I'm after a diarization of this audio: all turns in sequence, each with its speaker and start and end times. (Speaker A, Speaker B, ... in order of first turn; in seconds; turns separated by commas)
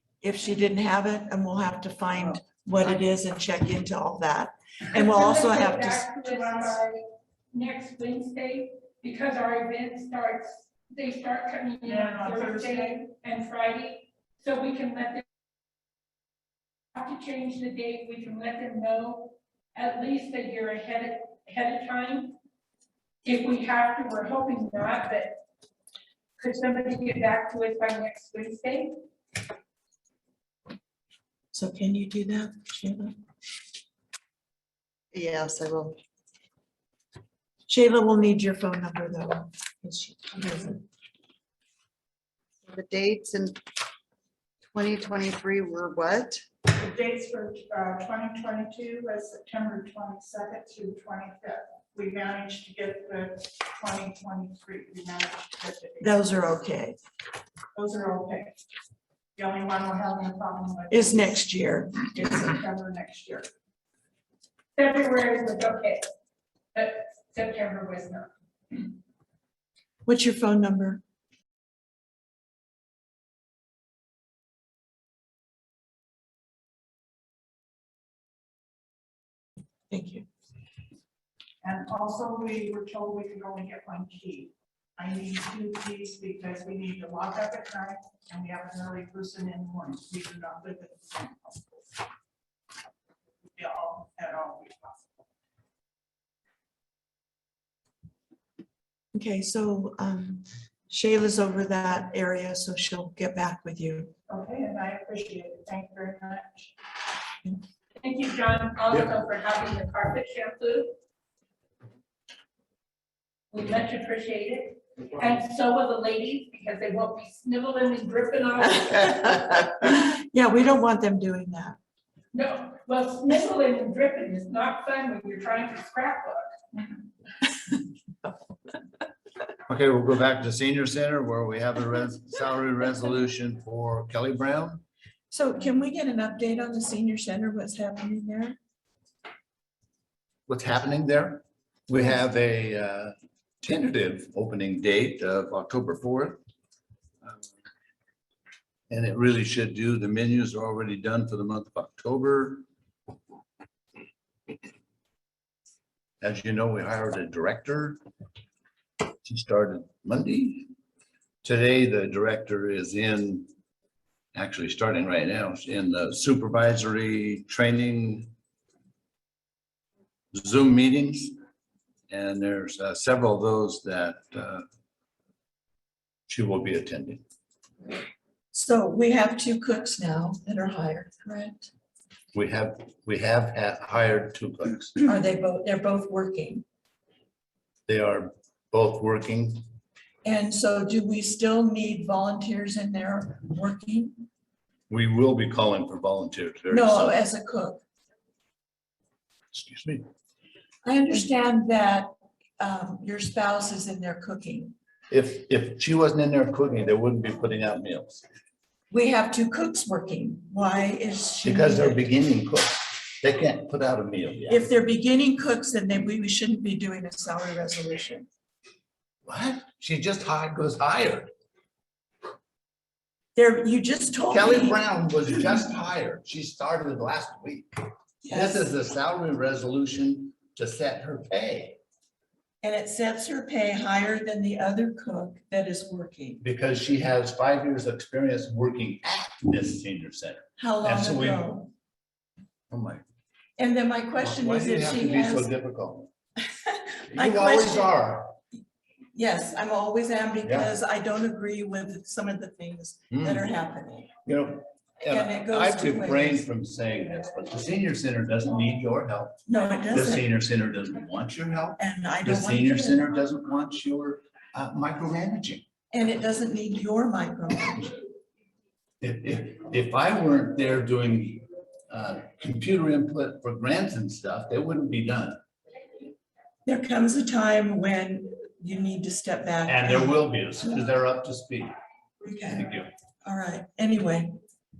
Speaker A: 0.2-6.1, Speaker B: 4.9-7.0, Speaker C: 6.2-6.8, Speaker B: 7.5-15.2, Speaker C: 11.8-13.1, Speaker B: 16.9-22.4, Speaker B: 23.2-25.4, Speaker B: 26.4-29.0, Speaker A: 31.5-33.2, Speaker D: 35.1-36.0, Speaker A: 37.7-40.8, Speaker D: 42.6-43.6, Speaker D: 44.7-46.4, Speaker C: 46.7-56.2, Speaker A: 56.0-57.0, Speaker C: 57.7-58.6, Speaker C: 59.4-61.4, Speaker A: 60.9-62.1, Speaker C: 62.0-63.5, Speaker B: 64.8-66.1, Speaker B: 66.7-68.3, Speaker A: 70.0-71.0, Speaker A: 79.9-80.3, Speaker C: 81.6-92.0, Speaker C: 93.5-95.1, Speaker A: 99.1-104.1, Speaker C: 104.3-106.7, Speaker B: 108.0-110.9, Speaker B: 113.5-119.4, Speaker A: 119.2-121.8, Speaker B: 122.3-126.5, Speaker E: 129.7-134.8, Speaker A: 135.3-138.6, Speaker E: 140.5-146.4, Speaker E: 148.9-152.7, Speaker E: 156.2-158.0, Speaker E: 159.2-160.7, Speaker E: 161.4-163.5, Speaker E: 164.3-168.3, Speaker E: 170.3-171.3, Speaker E: 172.1-174.7, Speaker E: 176.3-177.2, Speaker A: 178.5-181.7, Speaker E: 182.3-185.0, Speaker A: 185.1-186.6, Speaker E: 187.9-189.6, Speaker A: 190.2-194.2, Speaker E: 194.9-197.2, Speaker A: 196.7-197.8, Speaker E: 199.5-200.0, Speaker A: 200.8-204.8, Speaker E: 205.1-208.2, Speaker A: 208.9-212.0, Speaker E: 211.4-214.6, Speaker A: 214.5-218.3, Speaker E: 219.3-221.3, Speaker A: 223.4-224.8, Speaker E: 224.3-231.8, Speaker A: 228.2-228.7, Speaker A: 232.6-236.4, Speaker E: 236.4-241.5, Speaker A: 240.6-241.7, Speaker E: 242.7-243.0, Speaker A: 243.6-245.5, Speaker E: 244.2-246.1, Speaker A: 246.7-247.9, Speaker E: 247.1-248.3, Speaker A: 249.1-254.1, Speaker E: 250.4-250.7, Speaker E: 253.1-253.4, Speaker E: 254.3-265.6, Speaker A: 255.0-256.4, Speaker A: 259.5-260.3, Speaker A: 261.8-263.1, Speaker A: 265.9-267.9, Speaker E: 269.0-275.4, Speaker A: 276.7-280.2, Speaker E: 279.6-281.7, Speaker A: 282.2-282.6, Speaker E: 282.5-282.9, Speaker A: 283.2-284.4